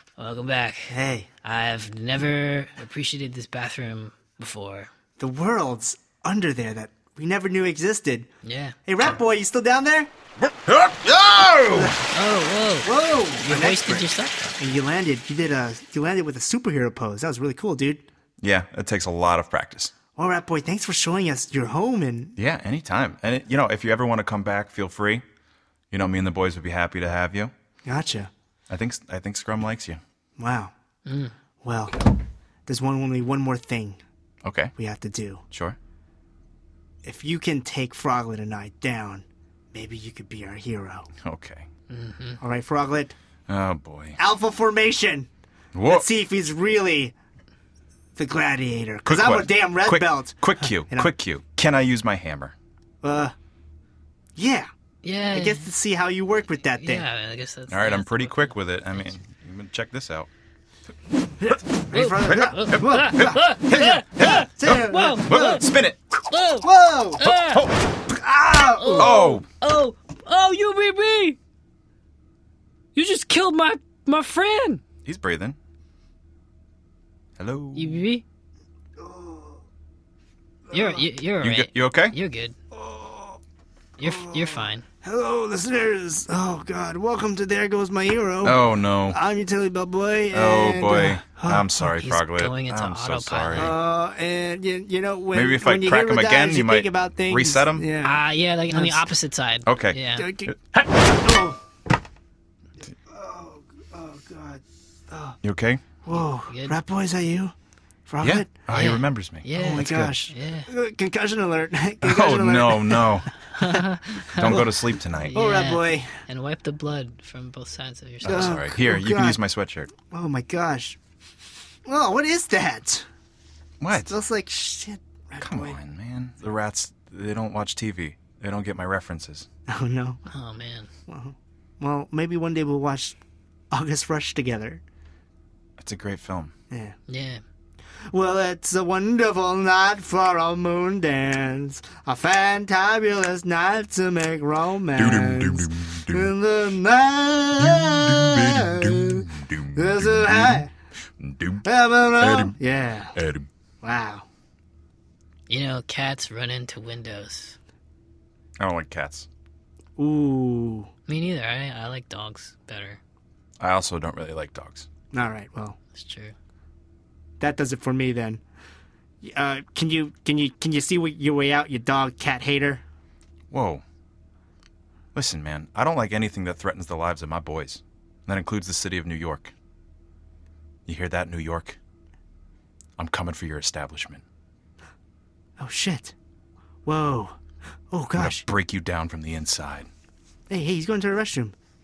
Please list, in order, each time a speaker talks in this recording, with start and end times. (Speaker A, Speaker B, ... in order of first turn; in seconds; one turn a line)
Speaker A: 0.2-4.9
Speaker B: 0.9-1.3
Speaker B: 5.2-8.3
Speaker A: 8.4-8.8
Speaker B: 8.9-10.1
Speaker C: 10.4-11.9
Speaker B: 11.7-12.0
Speaker A: 12.1-14.6
Speaker B: 12.8-14.1
Speaker B: 14.6-18.1
Speaker C: 18.4-19.9
Speaker B: 20.2-22.4
Speaker C: 22.4-25.2
Speaker C: 25.9-27.5
Speaker B: 27.9-28.3
Speaker C: 28.7-30.0
Speaker B: 30.4-30.7
Speaker A: 31.1-31.4
Speaker B: 31.6-32.0
Speaker B: 32.7-34.0
Speaker C: 34.4-34.7
Speaker B: 34.8-35.4
Speaker B: 37.0-41.1
Speaker C: 41.2-41.7
Speaker A: 41.9-42.4
Speaker B: 42.4-43.1
Speaker C: 43.5-44.2
Speaker B: 44.2-45.3
Speaker C: 45.7-46.1
Speaker B: 45.9-47.1
Speaker B: 48.2-51.1
Speaker C: 49.1-52.5
Speaker B: 53.0-53.4
Speaker B: 54.4-54.7
Speaker A: 55.0-55.7
Speaker B: 55.3-57.1
Speaker A: 56.8-59.2
Speaker C: 57.7-60.3
Speaker B: 61.4-63.4
Speaker A: 61.9-65.7
Speaker C: 62.2-66.2
Speaker B: 64.3-65.4
Speaker A: 66.3-67.7
Speaker B: 66.6-67.2
Speaker C: 67.2-67.8
Speaker B: 68.1-69.2
Speaker A: 68.8-71.4
Speaker C: 69.0-69.5
Speaker A: 73.0-74.8
Speaker C: 75.0-75.6
Speaker C: 77.4-78.0
Speaker A: 77.7-78.2
Speaker B: 79.0-79.6
Speaker B: 80.7-81.1
Speaker A: 80.7-82.6
Speaker C: 81.4-82.2
Speaker B: 82.7-83.4
Speaker A: 84.0-84.9
Speaker B: 84.0-91.9
Speaker C: 88.4-89.2
Speaker C: 90.3-93.7
Speaker A: 91.8-93.7
Speaker B: 93.6-99.1
Speaker C: 95.3-97.9
Speaker A: 98.0-100.3
Speaker C: 99.7-101.1
Speaker B: 100.2-100.5
Speaker B: 101.1-101.6
Speaker B: 103.1-105.4
Speaker C: 105.4-105.8
Speaker B: 106.0-107.5
Speaker A: 106.5-106.8
Speaker B: 108.1-108.5
Speaker C: 108.2-110.3
Speaker A: 108.7-110.7
Speaker B: 109.5-113.3
Speaker C: 112.0-113.3
Speaker A: 113.5-118.6
Speaker C: 114.3-115.3
Speaker B: 114.4-114.7
Speaker B: 115.3-116.1
Speaker C: 118.2-119.9
Speaker B: 118.3-119.4
Speaker B: 120.0-121.0
Speaker B: 121.8-123.1
Speaker C: 123.8-124.1
Speaker B: 123.9-125.8
Speaker C: 125.4-129.5
Speaker B: 129.7-130.2
Speaker A: 130.3-130.9
Speaker B: 131.1-133.2
Speaker B: 133.7-134.8
Speaker C: 135.8-136.5
Speaker B: 136.7-137.0
Speaker A: 137.1-137.4
Speaker B: 138.1-150.7
Speaker C: 145.0-146.3
Speaker C: 147.6-150.7
Speaker C: 151.2-151.7
Speaker B: 151.6-153.2
Speaker C: 152.2-152.6
Speaker C: 153.2-153.5
Speaker B: 153.8-154.3
Speaker A: 155.5-157.6
Speaker C: 158.6-159.3
Speaker B: 160.0-160.9
Speaker A: 161.1-163.0
Speaker C: 163.6-164.9
Speaker B: 165.1-165.8
Speaker A: 165.9-166.3
Speaker B: 167.4-168.4
Speaker B: 169.2-172.8
Speaker C: 173.5-173.8
Speaker C: 175.2-179.5
Speaker C: 180.9-181.8
Speaker C: 183.0-184.2
Speaker B: 185.6-186.1
Speaker B: 186.8-187.4
Speaker B: 187.9-188.4
Speaker C: 188.2-189.9
Speaker B: 190.5-191.6